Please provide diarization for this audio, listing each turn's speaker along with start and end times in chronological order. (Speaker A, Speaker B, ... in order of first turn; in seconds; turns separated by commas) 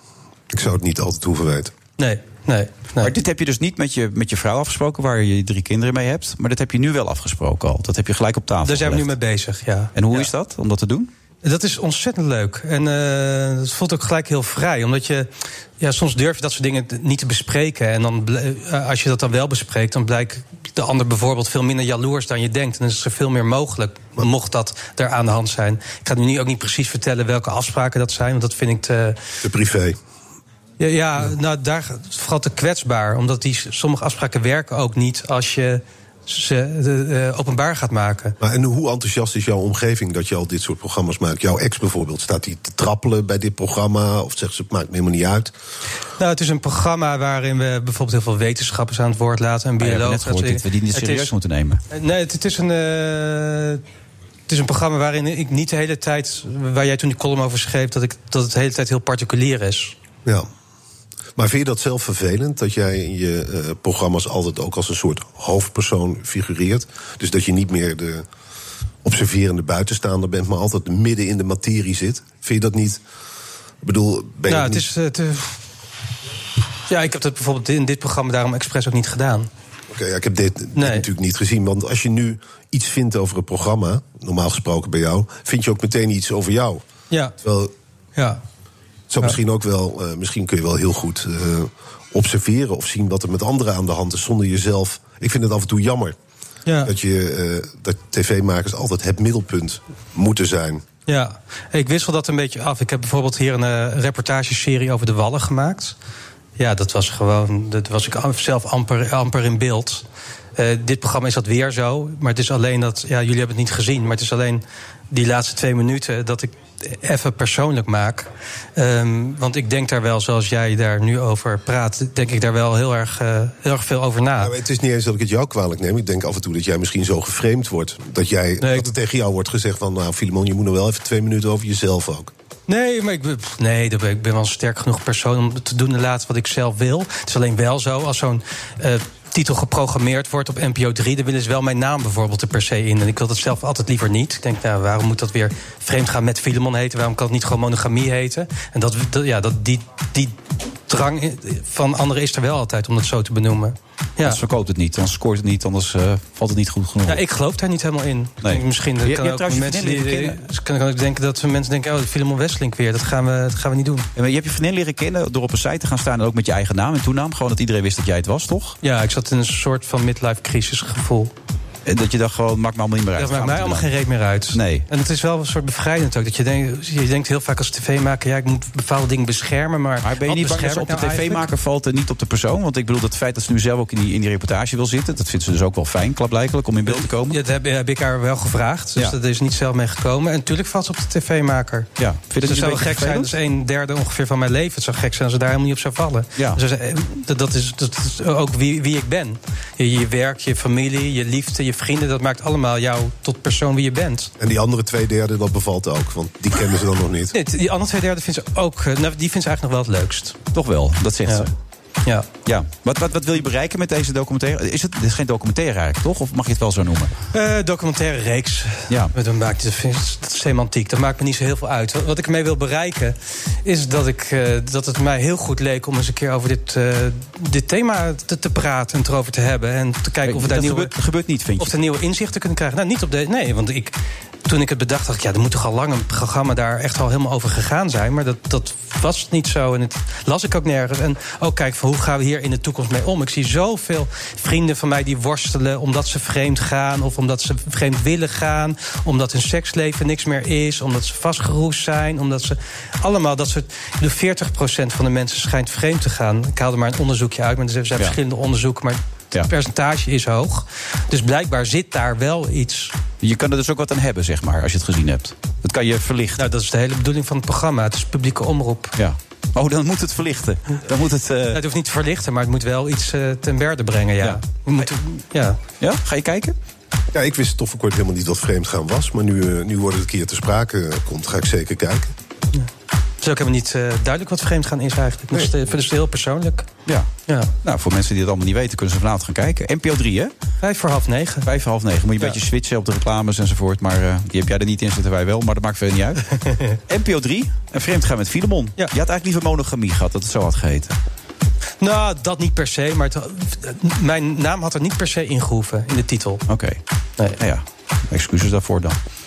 Speaker A: 0.5-1.7, Speaker B: 2.0-3.1, Speaker C: 3.0-9.1, Speaker B: 8.6-10.3, Speaker C: 9.9-11.1, Speaker B: 11.4-15.3, Speaker B: 15.8-29.2, Speaker A: 29.4-30.0, Speaker B: 30.8-38.4, Speaker A: 38.4-45.5, Speaker B: 46.2-51.3, Speaker C: 49.8-51.8, Speaker B: 51.9-53.8, Speaker B: 54.5-60.0, Speaker A: 61.4-68.2, Speaker A: 69.0-73.0, Speaker A: 73.8-74.9, Speaker B: 74.5-75.6, Speaker B: 76.9-79.5, Speaker A: 79.9-86.8, Speaker B: 80.8-81.0, Speaker B: 87.1-87.3, Speaker A: 87.4-87.7, Speaker B: 88.2-88.4, Speaker A: 89.1-96.2, Speaker B: 96.7-96.9, Speaker A: 96.8-100.8, Speaker B: 101.1-106.0, Speaker B: 106.6-110.0, Speaker B: 110.5-124.5, Speaker A: 124.4-132.3, Speaker B: 128.6-128.9, Speaker B: 132.7-154.4, Speaker C: 154.2-157.2, Speaker B: 157.1-164.1, Speaker C: 158.4-160.4, Speaker C: 164.2-168.8, Speaker B: 168.8-171.3, Speaker C: 171.8-173.9, Speaker B: 173.2-181.5, Speaker C: 174.5-174.9, Speaker C: 180.0-187.4, Speaker B: 186.8-191.9, Speaker C: 192.0-193.3, Speaker B: 192.4-204.3, Speaker A: 204.4-207.3, Speaker B: 207.3-210.4, Speaker C: 210.5-211.5, Speaker C: 212.4-217.1, Speaker B: 217.3-230.9, Speaker C: 230.2-231.7, Speaker B: 231.6-233.9, Speaker B: 234.4-262.9, Speaker C: 263.2-266.5, Speaker B: 266.4-268.9, Speaker C: 269.0-271.6, Speaker B: 271.5-275.6, Speaker C: 274.2-274.9, Speaker C: 275.8-276.6, Speaker A: 277.1-282.1, Speaker B: 283.2-286.7, Speaker B: 287.3-287.5, Speaker C: 287.6-290.3, Speaker B: 290.6-291.5, Speaker C: 291.4-296.2, Speaker B: 296.4-296.7, Speaker C: 296.9-300.9, Speaker B: 301.8-306.4, Speaker C: 306.5-306.8, Speaker C: 307.4-309.0